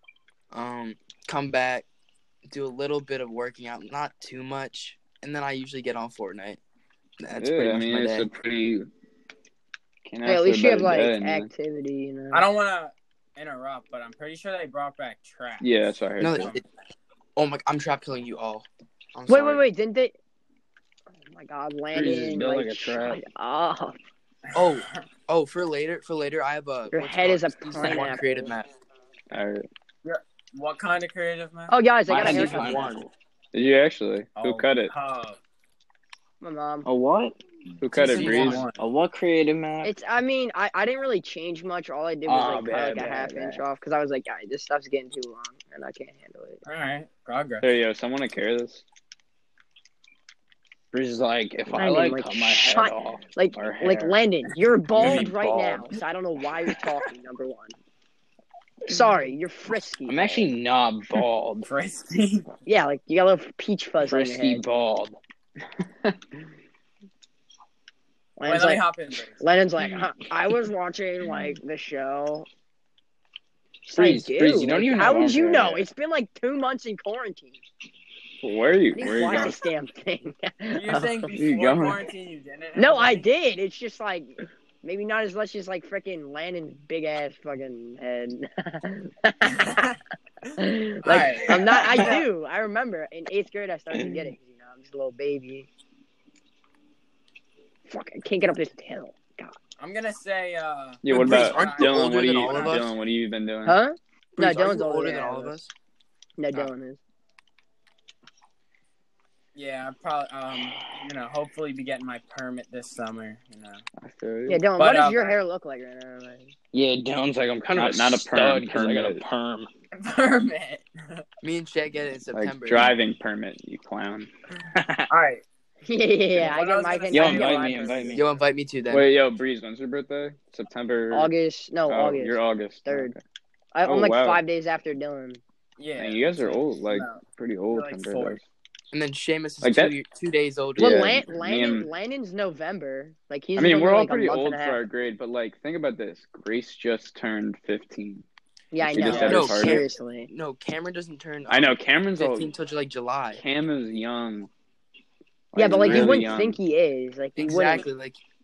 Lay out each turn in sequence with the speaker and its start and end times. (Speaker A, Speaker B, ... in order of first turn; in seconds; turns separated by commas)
Speaker A: 0.5-1.9, Speaker A: 2.5-6.6, Speaker A: 7.2-8.3, Speaker B: 7.4-8.9, Speaker B: 10.0-11.5, Speaker C: 10.2-12.5, Speaker D: 12.3-15.7, Speaker B: 15.6-16.5, Speaker A: 16.2-16.6, Speaker D: 16.3-16.6, Speaker A: 17.4-19.6, Speaker C: 19.3-20.1, Speaker C: 21.2-24.0, Speaker E: 21.9-23.2, Speaker D: 24.5-25.0, Speaker A: 24.5-28.7, Speaker C: 26.9-28.5, Speaker B: 29.3-29.6, Speaker D: 30.0-32.6, Speaker C: 31.7-32.9, Speaker E: 32.1-33.1, Speaker A: 32.2-33.0, Speaker B: 33.5-34.9, Speaker D: 34.4-35.4, Speaker C: 36.4-36.9, Speaker E: 36.8-37.4, Speaker B: 37.8-38.6, Speaker D: 37.9-38.8, Speaker A: 38.0-38.6, Speaker E: 38.1-39.9, Speaker C: 39.8-46.6, Speaker E: 42.2-43.6, Speaker D: 46.6-47.7, Speaker B: 47.6-48.8, Speaker E: 50.9-54.2, Speaker C: 51.7-57.7, Speaker E: 54.9-56.0, Speaker C: 58.9-60.5, Speaker E: 60.1-61.7, Speaker D: 61.6-62.5, Speaker C: 62.6-64.6, Speaker E: 64.0-65.2, Speaker C: 68.4-68.8, Speaker D: 68.4-69.4, Speaker C: 69.4-72.5, Speaker C: 73.8-77.6, Speaker E: 73.9-75.9, Speaker B: 78.4-79.6, Speaker C: 78.9-81.3, Speaker D: 80.7-83.3, Speaker B: 81.3-82.0, Speaker C: 82.8-89.8, Speaker D: 89.5-90.0, Speaker C: 90.6-95.7, Speaker D: 91.0-92.2, Speaker E: 94.0-94.3, Speaker C: 97.9-99.5, Speaker D: 99.8-102.9, Speaker B: 101.0-103.8, Speaker A: 101.1-102.9, Speaker C: 103.7-105.6, Speaker A: 104.3-105.7, Speaker C: 106.4-107.0, Speaker D: 109.5-113.8, Speaker B: 114.0-114.6, Speaker C: 114.5-116.5, Speaker D: 114.8-115.4, Speaker E: 116.7-119.7, Speaker B: 117.7-119.2, Speaker D: 119.9-121.2, Speaker A: 121.4-122.9, Speaker B: 122.3-124.3, Speaker E: 124.7-125.1, Speaker D: 125.1-125.4, Speaker C: 125.8-128.2, Speaker D: 126.3-128.4, Speaker E: 127.1-128.2, Speaker A: 128.1-129.1, Speaker B: 128.9-131.3, Speaker C: 131.1-133.1, Speaker B: 131.9-133.2, Speaker C: 133.7-135.4, Speaker B: 133.8-134.4, Speaker D: 135.8-138.4, Speaker B: 136.0-138.4, Speaker A: 138.9-141.2, Speaker B: 139.6-139.9, Speaker B: 140.8-141.9, Speaker C: 140.8-144.8, Speaker B: 143.6-148.2, Speaker C: 148.7-150.3, Speaker B: 148.8-149.8, Speaker D: 149.0-149.4, Speaker A: 149.2-153.4, Speaker B: 151.5-152.5, Speaker B: 153.3-154.5, Speaker B: 155.5-156.6, Speaker C: 155.5-157.8, Speaker A: 155.8-156.3, Speaker A: 157.3-158.2